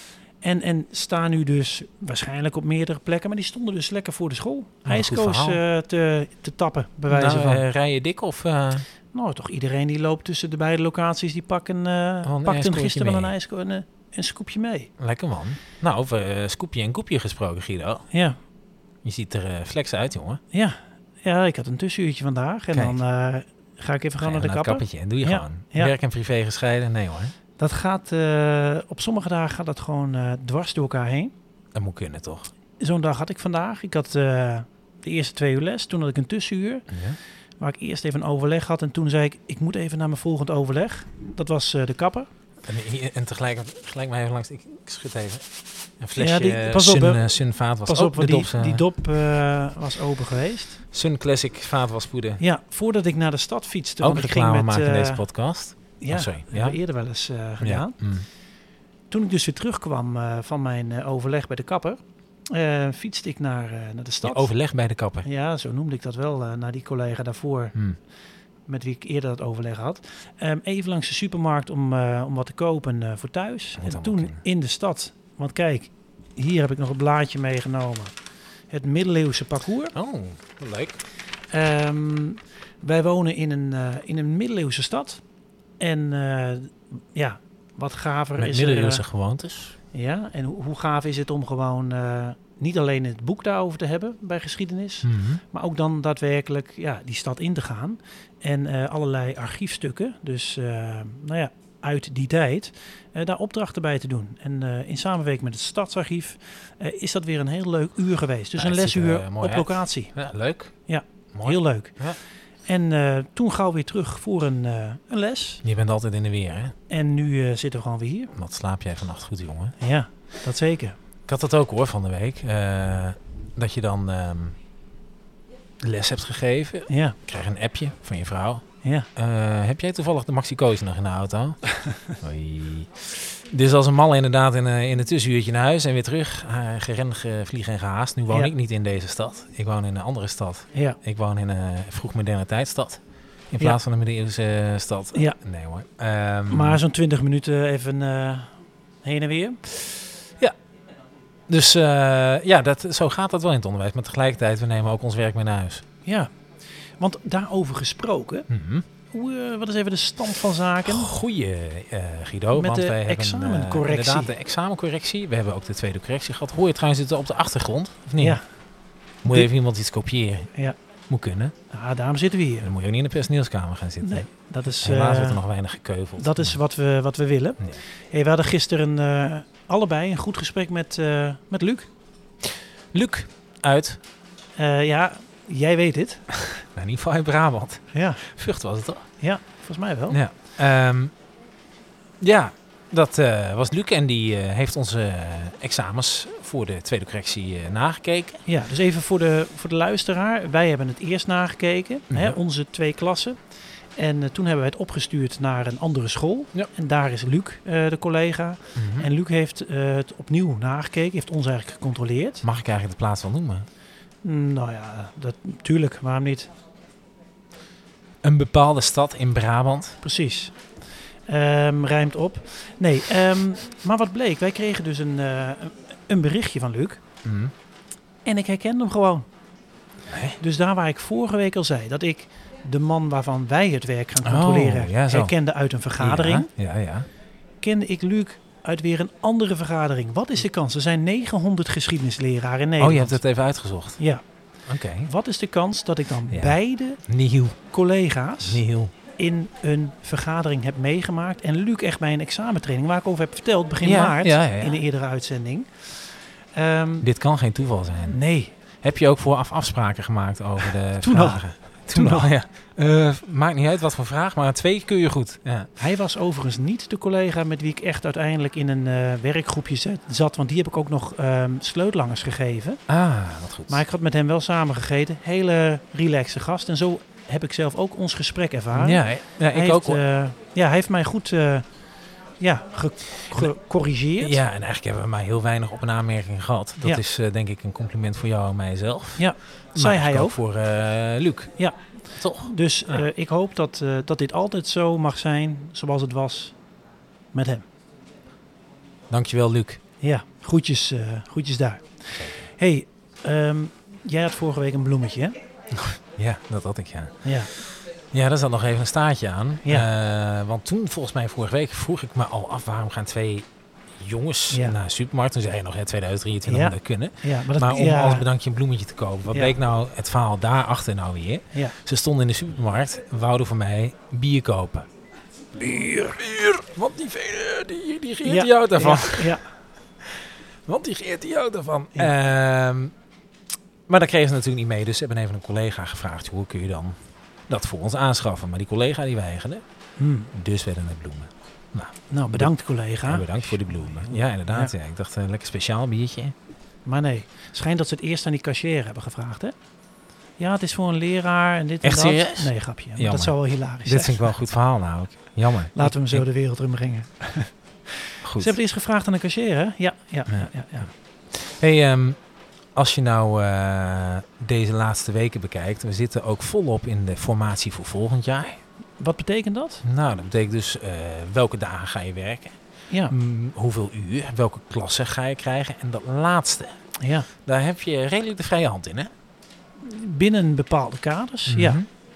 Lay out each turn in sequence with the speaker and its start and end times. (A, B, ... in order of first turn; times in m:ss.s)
0:00.4-0:07.6 A
0:04.8-0:05.6 B
0:07.1-0:08.8 B
0:09.1-0:14.9 A
0:12.2-0:13.3 B
0:15.0-0:18.0 B
0:18.1-0:18.4 A
0:19.0-0:20.4 B
0:20.5-0:25.9 A
0:22.7-0:23.0 B
0:24.2-0:27.3 B
0:27.6-0:31.3 A
0:31.7-0:32.5 B
0:32.8-0:36.9 A
0:36.9-0:37.2 B
0:37.6-0:42.3 A
0:42.6-0:45.4 B
0:46.0-0:48.8 B
0:46.2-0:47.3 A
0:47.8-0:50.8 A
0:50.9-0:52.4 B
0:52.4-0:55.2 A
0:54.0-0:56.8 B
0:56.0-0:58.0 A
0:57.6-0:58.3 B
0:59.1-1:04.5 A
1:04.2-1:05.3 B
1:05.2-1:07.8 A
1:08.7-1:18.1 A
1:13.8-1:14.4 B
1:18.7-1:20.0 A
1:19.9-1:21.0 B
1:21.5-1:25.2 A
1:25.8-1:29.0 A
1:28.4-1:29.7 B
1:29.9-1:50.1 A
1:35.0-1:35.4 B
1:48.6-1:50.7 B
1:50.8-1:52.0 A
1:51.3-1:52.2 B
1:52.6-1:55.6 A
1:55.6-1:56.7 B
1:56.9-1:58.3 A
1:58.3-1:59.7 B
1:59.8-2:01.0 A
2:01.3-2:04.6 B
2:05.8-2:08.6 B
2:06.9-2:07.2 A
2:08.8-2:09.1 A
2:09.2-2:26.8 B
2:20.7-2:21.0 A
2:26.5-2:29.6 A
2:31.5-2:35.8 B
2:36.0-2:36.3 A
2:37.0-2:38.5 A
2:38.5-2:38.8 B
2:39.1-2:41.1 A
2:40.8-2:48.4 B
2:42.5-2:44.3 A
2:49.2-2:50.5 B
2:51.1-2:51.5 B
2:51.7-2:52.7 A
2:52.6-2:54.3 B
2:54.0-2:55.4 A
2:54.8-2:56.6 B
2:56.2-3:01.9 A
3:02.9-3:04.0 B
3:04.6-3:06.4 A
3:06.7-3:09.0 B
3:07.9-3:08.2 A
3:09.2-3:10.2 A
3:10.1-3:11.1 B
3:12.2-3:18.4 B
3:18.4-3:23.4 A
3:22.1-3:22.4 B
3:24.0-3:32.4 A
3:28.8-3:29.1 B
3:32.4-3:33.7 B
3:34.2-3:36.5 A
3:38.2-3:40.0 B
3:40.0-3:40.5 A
3:41.3-3:47.0 A
3:47.2-3:47.5 B
3:48.2-3:49.2 A
3:50.1-3:50.4 B
3:50.4-3:56.5 A
3:54.2-3:55.3 B
3:56.0-3:57.1 B
3:57.6-4:03.2 A
4:02.8-4:04.0 B
4:04.0-4:04.2 A
4:04.7-4:05.1 B
4:05.0-4:07.0 A
4:06.3-4:07.6 B
4:07.6-4:08.6 A
4:08.4-4:08.9 B
4:09.2-4:17.1 A
4:13.8-4:14.8 B
4:17.0-4:18.2 B
4:18.1-4:18.5 A
4:18.8-4:25.7 B
4:21.0-4:22.3 A
4:25.8-4:32.8 A
4:32.9-4:33.8 B
4:33.7-4:41.7 A
4:38.7-4:40.0 B
4:42.4-4:44.4 A
4:44.2-4:51.5 B
4:49.2-4:50.4 A
4:52.2-4:53.1 B
4:52.3-4:56.6 A
4:57.3-4:57.6 A
4:59.1-4:59.8 B
5:00.0-5:05.4 A
5:05.7-5:24.9 B
5:07.2-5:07.5 A
5:14.5-5:14.8 A
5:16.4-5:18.3 A
5:19.3-5:19.6 A
5:25.7-5:29.4 B
5:28.2-5:29.5 A
5:30.0-5:32.9 B
5:33.9-5:37.0 B
5:37.5-5:39.6 B
5:40.0-5:40.3 A
5:40.3-5:42.5 B
5:42.1-5:44.7 A
5:43.0-5:46.3 B
5:46.8-5:49.5 A
5:50.4-5:54.3 A
5:51.8-5:56.2 B
5:55.7-5:57.5 A
5:58.2-5:58.5 B
5:58.3-6:00.9 A
6:01.3-6:02.2 B
6:02.7-6:08.6 B
6:09.0-6:09.8 A
6:09.8-6:12.5 B
6:13.1-6:16.8 B
6:17.0-6:17.3 A
6:17.4-6:19.1 B
6:19.8-6:21.8 A
6:21.5-6:21.8 B